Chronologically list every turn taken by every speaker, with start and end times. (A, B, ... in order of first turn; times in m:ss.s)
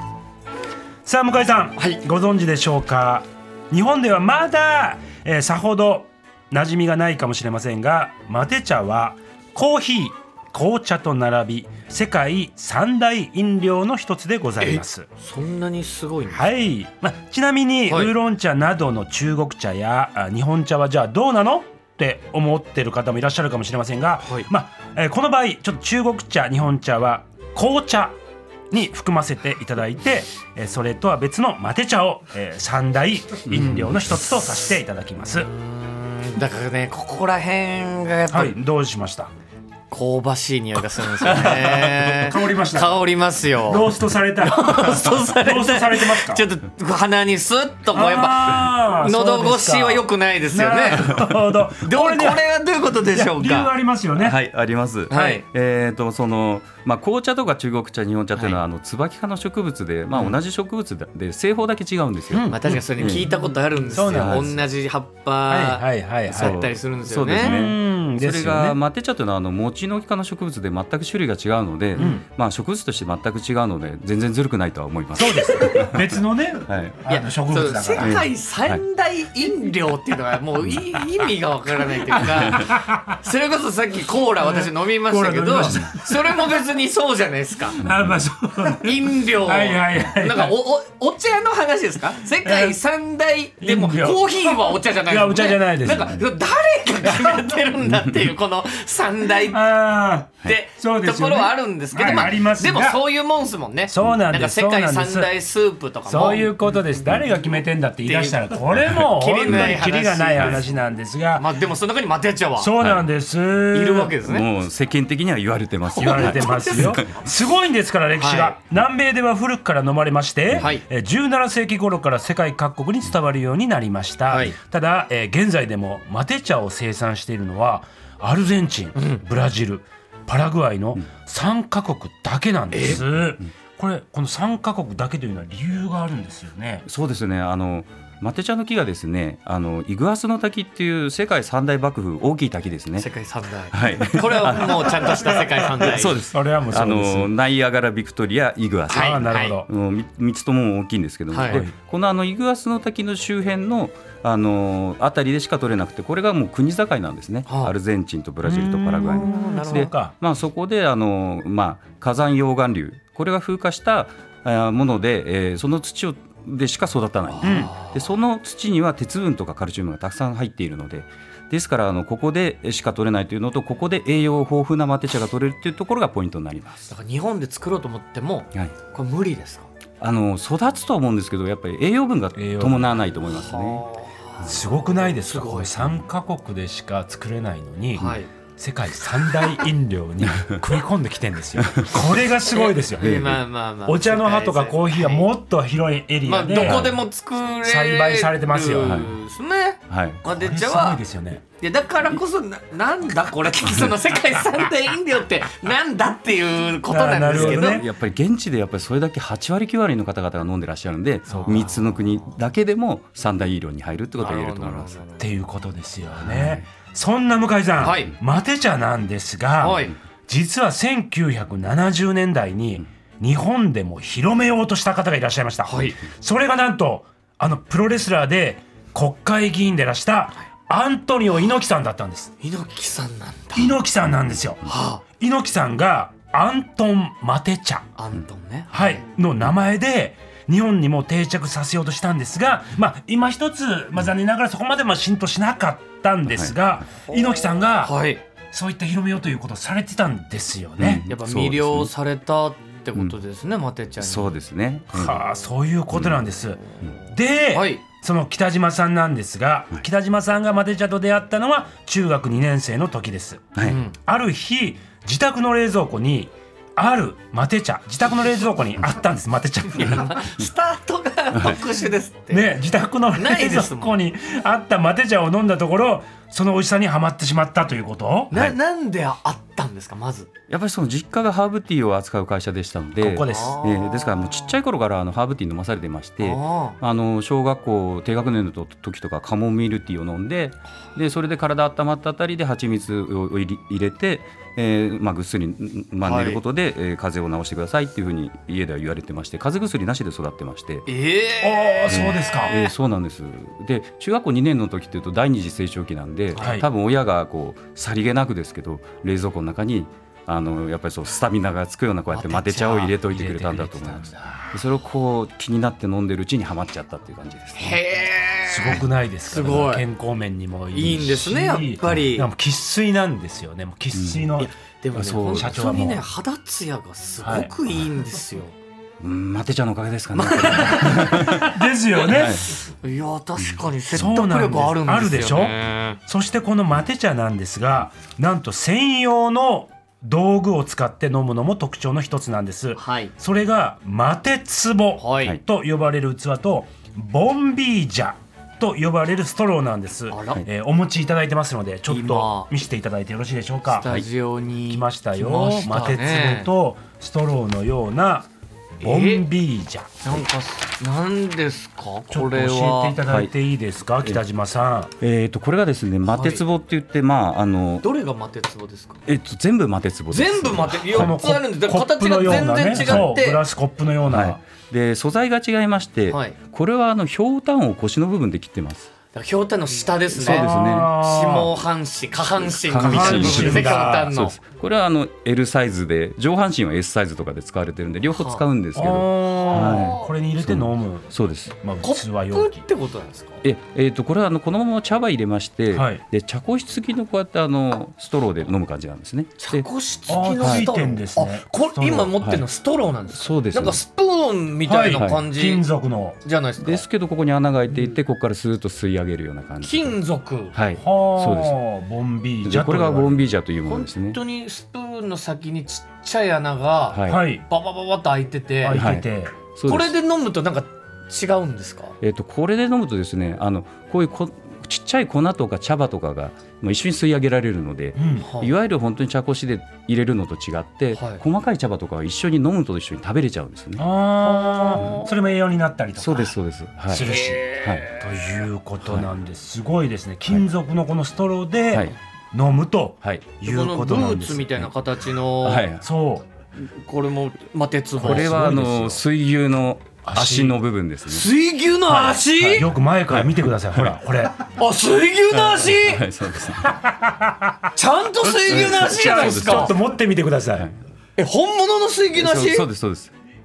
0:01.0-0:15.1 A
0:14.6-0:16.5 B
0:16.3-0:28.2 A
0:17.9-0:18.1 B
0:28.7-0:35.5 A
0:33.5-0:34.0 C
0:35.4-0:38.6 B
0:38.3-0:39.3 A
0:39.9-0:51.2 B
0:41.2-0:43.0 A
0:43.6-0:46.4 A
0:47.9-0:52.4 A
0:51.8-0:53.7 B
0:53.1-0:54.4 A
0:54.2-1:03.2 C
0:55.1-0:55.4 B
1:02.3-1:02.8 A
1:02.5-1:07.6 B
1:03.9-1:04.6 A
1:04.1-1:04.5 C
1:05.5-1:06.5 A
1:06.3-1:16.0 C
1:07.4-1:08.8 A
1:12.0-1:12.2 A
1:15.2-1:18.2 A
1:15.2-1:15.9 B
1:16.7-1:17.0 C
1:17.0-1:27.8 B
1:18.0-1:18.8 C
1:22.2-1:23.1 A
1:24.4-1:26.5 A
1:27.8-1:30.6 A
1:28.8-1:39.7 B
1:32.4-1:32.8 A
1:33.6-1:36.2 A
1:37.0-1:37.6 A
1:39.5-1:43.0 A
1:40.4-1:46.5 B
1:43.9-1:45.3 A
1:46.1-1:51.5 A
1:48.0-1:50.7 B
1:49.4-1:49.7 C
1:51.4-1:52.8 B
1:52.6-1:54.2 A
1:52.8-1:53.1 C
1:53.7-1:54.4 B
1:54.3-1:57.1 C
1:56.0-1:57.2 B
1:56.0-2:16.8 A
1:58.2-1:58.6 B
2:00.6-2:00.8 B
2:04.3-2:04.5 B
2:09.0-2:09.2 B
2:12.7-2:13.0 B
2:16.8-2:23.1 C
2:23.0-2:26.2 B
2:23.7-2:25.2 C
2:25.3-2:27.3 A
2:25.8-2:56.9 C
2:28.9-2:29.6 B
2:28.9-2:29.7 A
2:31.3-2:31.6 B
2:31.5-2:31.7 A
2:37.5-2:37.7 B
2:38.4-2:40.1 A
2:39.0-2:39.9 B
2:47.3-2:48.0 B
2:47.4-2:47.7 A
2:56.9-2:59.7 B
3:00.0-3:03.9 C
3:02.4-3:03.0 A
3:03.3-3:06.0 B
3:04.4-3:13.3 A
3:08.0-3:08.3 B
3:10.3-3:10.6 C
3:11.6-3:12.0 C
3:12.5-3:15.3 B
3:13.0-3:13.4 C
3:13.8-3:17.0 A
3:16.2-3:21.0 B
3:16.6-3:16.9 C
3:17.6-3:19.0 A
3:18.8-3:19.1 C
3:19.9-3:20.2 C
3:20.2-3:21.4 A
3:21.6-3:27.8 B
3:26.9-3:27.8 A
3:27.3-3:35.0 C
3:31.3-3:31.8 B
3:34.2-3:35.2 B
3:35.2-3:52.3 A
3:36.2-3:36.6 C
3:37.8-3:38.1 B
3:39.6-3:39.9 B
3:45.6-3:46.0 B
3:52.4-3:53.8 B
3:53.5-3:57.9 A
3:54.6-3:55.0 B
3:58.0-3:59.0 B
3:58.7-4:08.0 A
4:06.3-4:06.6 C
4:07.8-4:08.2 B
4:08.5-4:11.0 A
4:10.8-4:11.9 C
4:11.0-4:14.3 B
4:14.0-4:15.2 C
4:14.9-4:30.2 A
4:15.9-4:16.2 C
4:17.5-4:17.8 B
4:23.6-4:23.9 B
4:29.7-4:32.5 B
4:32.3-4:38.4 A
4:33.1-4:34.0 B
4:38.3-4:40.3 B
4:40.5-5:00.9 C
4:43.0-4:43.6 A
4:43.2-4:44.5 B
4:46.2-4:46.8 B
4:56.0-4:56.4 B
5:00.9-5:02.7 B
5:01.4-5:02.5 A
5:01.9-5:17.8 C
5:06.4-5:06.6 B
5:06.4-5:06.6 A
5:12.1-5:12.9 B
5:13.1-5:14.5 A
5:17.6-5:19.8 B
5:18.5-5:24.5 A
5:20.7-5:22.3 B
5:23.9-5:24.3 C
5:24.4-5:28.5 B
5:24.9-5:25.6 C
5:25.3-5:26.0 A
5:27.2-5:27.5 A
5:29.0-5:31.5 C
5:30.1-5:36.0 B
5:30.8-5:32.4 A
5:32.0-5:32.5 C
5:33.9-5:53.9 A
5:42.8-5:43.1 B
5:45.0-5:45.4 B
5:50.1-5:50.4 B
5:51.9-5:52.5 B
5:53.7-5:56.5 B
5:54.7-5:58.3 A
5:58.8-5:59.2 B
5:58.8-6:00.0 A
6:00.0-6:03.0 B
6:02.1-6:04.9 A
6:03.1-6:03.3 C
6:05.0-6:07.8 C
6:06.1-6:06.4 B
6:07.8-6:09.0 B
6:09.0-6:11.1 C
6:10.1-6:13.4 B
6:10.9-6:14.4 A
6:12.2-6:13.1 C
6:14.1-6:18.9 C
6:16.1-6:16.4 B
6:19.1-6:24.4 B
6:20.2-6:20.9 C
6:20.2-6:21.5 A
6:22.4-6:31.5 C
6:22.8-6:24.1 A
6:28.1-6:28.4 B
6:28.7-6:32.6 A
6:29.3-6:30.1 B
6:31.8-6:33.4 B
6:33.4-6:39.7 C
6:35.7-6:36.0 A
6:39.4-6:45.6 B
6:40.1-6:42.1 A
6:40.4-6:40.7 C
6:43.1-6:43.8 C
6:44.6-6:46.2 A
6:45.0-6:45.2 C
6:46.2-6:46.8 B
6:46.6-6:50.0 C
6:49.6-6:50.5 B
6:50.5-6:51.6 C
6:50.8-6:53.3 A
6:52.4-6:54.2 C
6:53.7-6:58.8 B
6:56.9-6:57.2 C
6:57.1-6:57.4 A
6:58.6-6:59.3 A
6:58.7-6:59.9 C
6:59.7-7:02.0 B
7:02.0-7:13.9 C
7:08.0-7:08.3 A
7:08.2-7:08.5 B
7:10.9-7:11.2 B
7:13.8-7:16.4 A
7:14.2-7:15.1 B
7:16.0-7:17.1 C
7:16.9-7:24.5 A
7:16.9-7:18.3 B
7:18.8-7:19.1 C
7:23.4-7:25.7 B
7:25.4-7:25.8 C
7:25.8-7:26.2 A
7:26.6-7:28.7 B
7:28.0-7:31.3 C
7:28.0-7:29.0 A
7:30.0-7:30.6 A
7:31.1-7:32.7 B
7:31.9-7:33.9 C
7:32.5-7:34.4 A
7:34.5-7:36.0 B
7:35.3-7:36.8 C
7:36.6-7:37.7 A
7:37.7-7:39.7 B
7:38.3-7:40.7 A
7:38.5-7:39.8 C
7:41.2-7:42.6 B
7:42.2-7:43.1 C